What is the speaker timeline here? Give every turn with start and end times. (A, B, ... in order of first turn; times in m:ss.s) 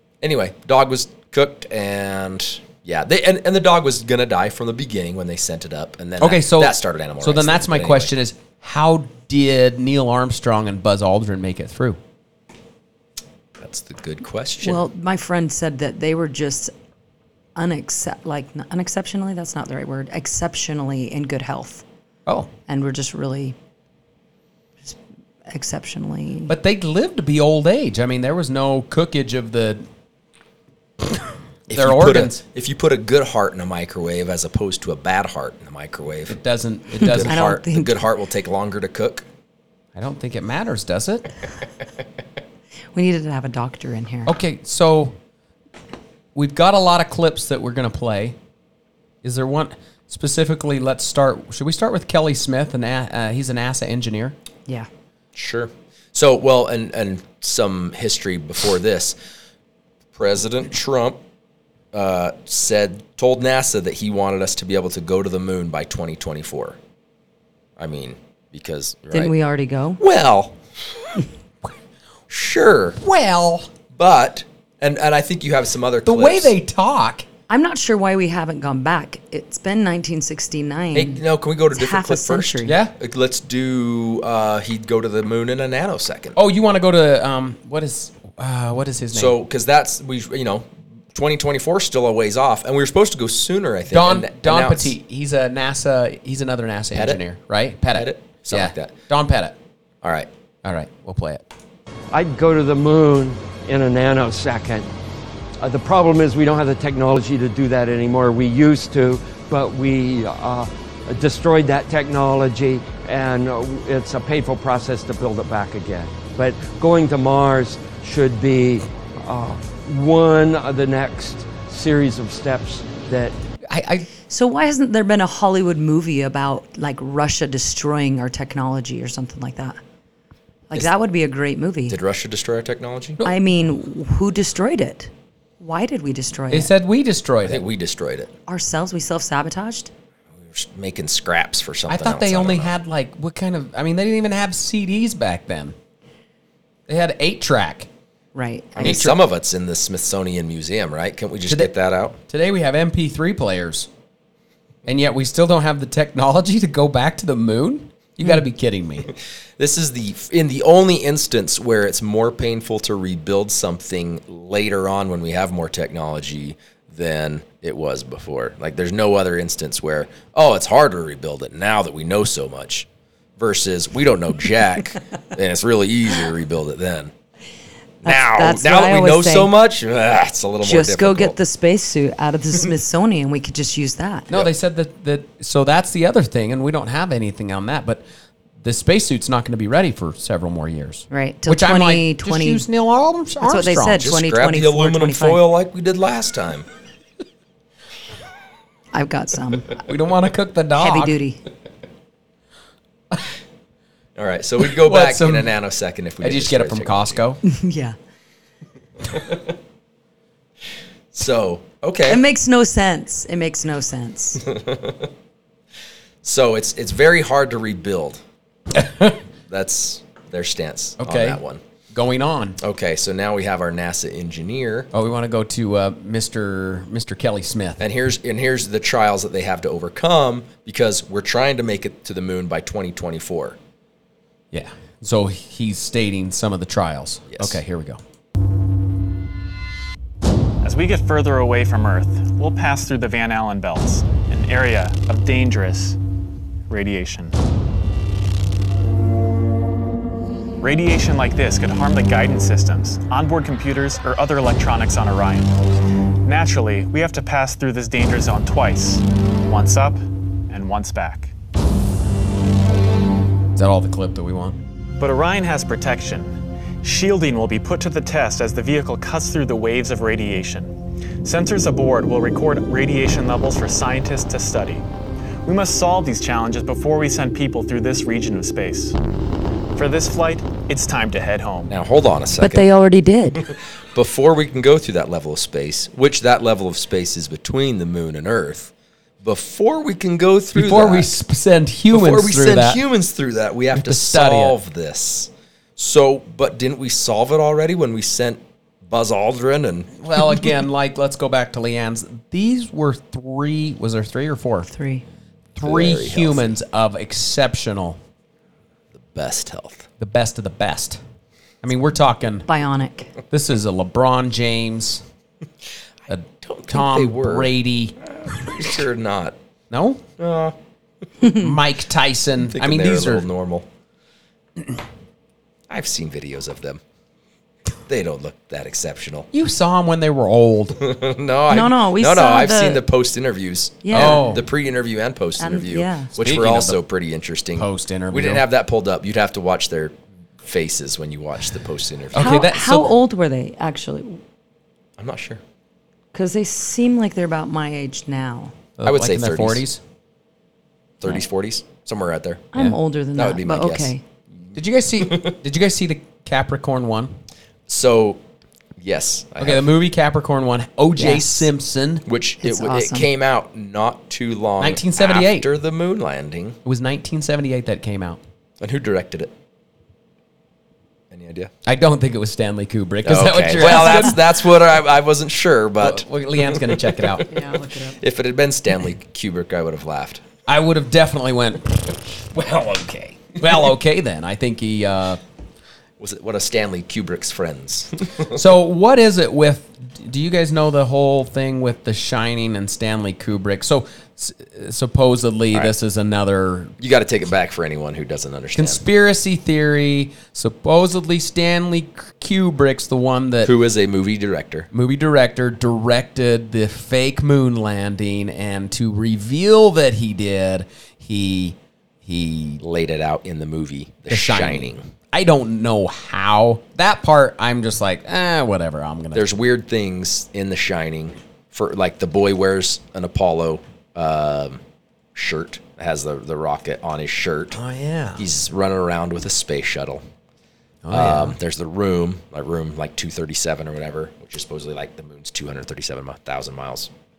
0:00.2-0:08.1 A
0:06.2-0:12.0 B
0:13.6-0:14.8 A
0:14.6-0:16.7 C
0:17.6-0:21.8 C
0:22.7-0:23.6 C
0:25.5-0:26.5 C
0:26.5-0:29.8 B
0:31.7-0:36.4 A
0:31.7-0:32.4 B
0:36.3-0:37.4 B
0:37.0-0:39.3 A
0:37.0-0:37.9 C
0:40.0-0:41.3 B
0:42.9-0:44.3 C
0:44.3-0:45.1 B
0:46.4-0:48.4 B
0:49.2-0:54.4 B
0:55.3-0:59.2 A
1:00.2-1:01.2 A
1:01.9-1:06.8 A
1:07.8-1:09.3 A
1:09.1-1:10.0 C
1:10.0-1:10.6 A
1:12.3-1:13.0 A
1:13.0-1:13.7 B
1:13.9-1:16.5 A
1:16.0-1:17.2 B
1:17.5-1:22.7 C
1:20.9-1:26.4 A
1:22.6-1:22.9 B
1:26.4-1:29.3 B
1:29.1-1:34.9 A
1:33.9-1:39.6 B
1:36.9-1:37.2 A
1:37.9-1:39.0 A
1:40.0-1:40.3 A
1:40.6-1:41.4 B
1:42.1-1:44.9 D
1:45.6-2:03.4 D
2:03.7-2:04.1 B
2:04.3-2:09.8 C
2:10.7-2:12.0 C
2:11.9-2:13.2 A
2:13.2-2:16.7 C
2:16.5-2:17.6 B
2:17.4-2:18.3 A
2:18.5-2:19.9 C
2:20.4-2:22.7 A
2:21.9-2:25.8 B
2:26.9-2:27.9 B
2:28.3-2:29.1 C
2:28.8-2:32.2 A
2:28.8-2:29.2 B
2:32.3-2:33.9 B
2:34.8-2:39.1 B
2:39.6-2:52.9 A
2:53.4-2:57.1 A
2:58.0-3:01.4 A
2:58.0-2:59.5 C
3:00.6-3:04.3 C
3:04.3-3:08.0 B
3:08.6-3:14.1 B
3:11.1-3:12.6 C
3:13.4-3:15.4 C
3:14.0-3:16.7 A
3:18.9-3:19.8 C
3:19.9-3:21.2 B
3:20.8-3:21.4 C
3:24.2-3:27.2 A
3:24.7-3:25.5 B
3:26.2-3:27.4 B
3:27.4-3:28.0 C
3:31.1-3:32.2 A
3:32.1-3:34.4 C
3:34.4-3:35.1 A
3:36.2-3:38.2 A
3:38.8-3:39.2 B
3:39.5-3:41.6 A
3:41.0-3:41.4 B
3:41.9-3:42.6 B
3:42.6-3:44.9 A
3:44.9-3:47.8 B
3:47.8-3:53.6 A
3:54.5-3:58.0 B
3:57.3-3:57.6 A
4:00.6-4:06.0 E
4:06.7-4:07.4 E
4:10.6-4:15.6 E
4:16.2-4:21.3 E
4:23.6-4:24.6 B
4:25.0-4:34.8 E
4:35.4-4:39.0 E
4:39.8-4:41.8 E
4:41.7-4:42.7 A
4:42.4-4:43.4 C
4:43.4-4:51.2 A
4:50.5-4:52.8 B
4:51.9-5:00.5 A
4:53.8-4:54.6 B
5:00.0-5:04.7 B
5:04.7-5:05.0 C
5:05.6-5:06.5 A
5:05.6-5:08.0 B
5:09.0-5:09.9 A
5:10.0-5:11.0 B
5:11.6-5:12.5 B
5:12.5-5:13.1 C
5:13.3-5:15.0 B
5:16.1-5:17.9 B
5:16.4-5:17.5 A
5:18.1-5:19.4 A
5:19.7-5:20.0 B
5:20.2-5:20.6 A
5:21.2-5:21.5 C
5:21.4-5:23.3 B
5:22.4-5:23.7 A
5:25.7-5:26.8 A
5:27.9-5:29.3 A
5:29.3-5:30.8 B
5:30.8-5:42.4 A
5:31.5-5:32.8 C
5:33.8-5:34.3 C
5:33.9-5:34.4 B
5:35.4-5:36.1 C
5:36.2-5:36.8 B
5:37.6-5:38.4 B
5:42.1-5:42.9 B
5:42.2-5:44.2 C
5:45.0-5:45.4 A
5:46.1-5:48.5 C
5:48.8-5:49.8 B
5:48.8-5:49.6 A
5:51.0-5:52.5 A
5:52.5-5:54.0 C
5:53.2-5:53.9 A
5:54.5-5:57.1 B
5:55.0-5:55.4 A
5:57.7-5:58.2 A
5:58.8-5:59.6 A
5:59.4-6:02.0 B
6:01.0-6:01.5 C
6:02.1-6:06.6 A
6:02.4-6:03.1 C
6:04.6-6:05.5 B
6:06.7-6:08.2 B
6:08.6-6:09.3 A
6:11.1-6:11.5 A
6:11.7-6:14.3 B
6:13.0-6:20.2 A
6:15.8-6:17.3 B
6:17.3-6:18.0 C
6:20.5-6:25.2 B
6:22.4-6:23.7 A
6:26.0-6:28.4 A
6:28.3-6:36.7 B
6:36.8-6:38.8 A
6:38.6-6:43.5 B
6:43.4-6:44.7 A
6:44.7-6:52.6 B
6:52.6-6:54.9 A
6:54.1-6:59.3 B
6:59.1-7:04.6 A
7:05.2-7:07.6 A
7:07.5-7:08.3 B
7:08.2-7:10.0 A
7:10.8-7:11.4 B
7:10.9-7:16.9 A